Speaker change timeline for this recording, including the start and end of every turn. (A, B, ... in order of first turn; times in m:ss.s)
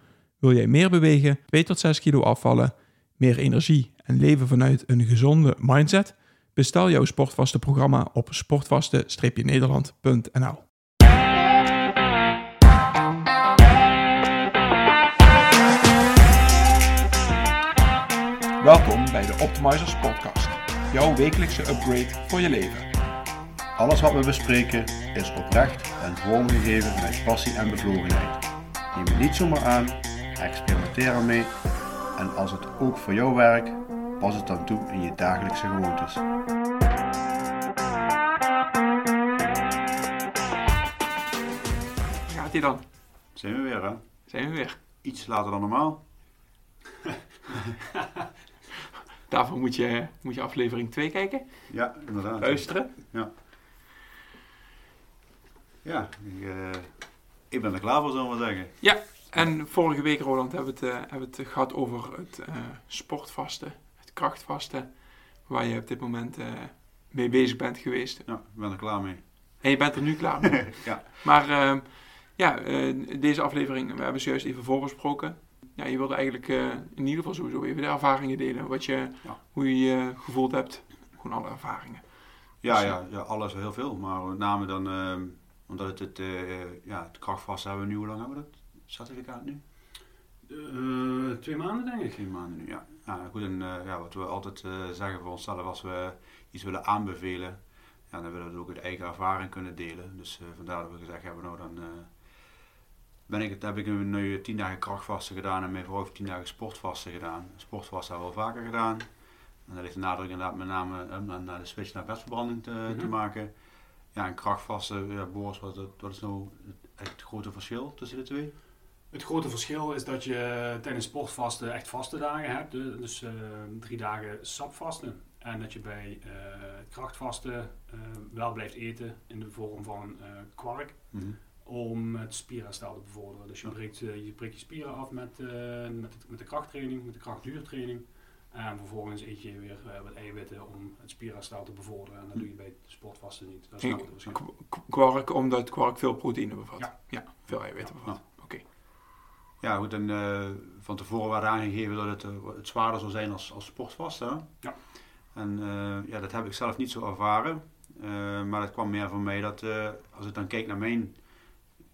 0:00.4-0:10.7 A
0:18.6-0:22.9 A
0:23.8-0:31.6 B
0:32.2-0:36.2 B
0:42.3-0:42.8 A
0:43.3-0:44.0 B
0:44.3-0:44.8 A
0:45.0-0:46.0 B
0:49.3-0:53.0 A
0:51.7-0:53.3 B
0:55.8-0:58.8 B
0:58.8-1:08.3 A
1:08.2-1:09.8 B
1:09.6-1:23.0 A
1:10.5-1:11.1 B
1:22.6-1:29.6 B
1:30.5-1:32.2 C
1:32.2-1:42.1 B
1:43.3-1:49.1 B
1:49.7-1:53.5 B
1:54.1-1:58.5 B
1:59.1-2:24.3 C
2:11.1-2:11.4 B
2:23.8-2:28.6 A
2:27.5-2:28.2 B
2:29.6-2:34.6 B
2:35.3-2:41.2 B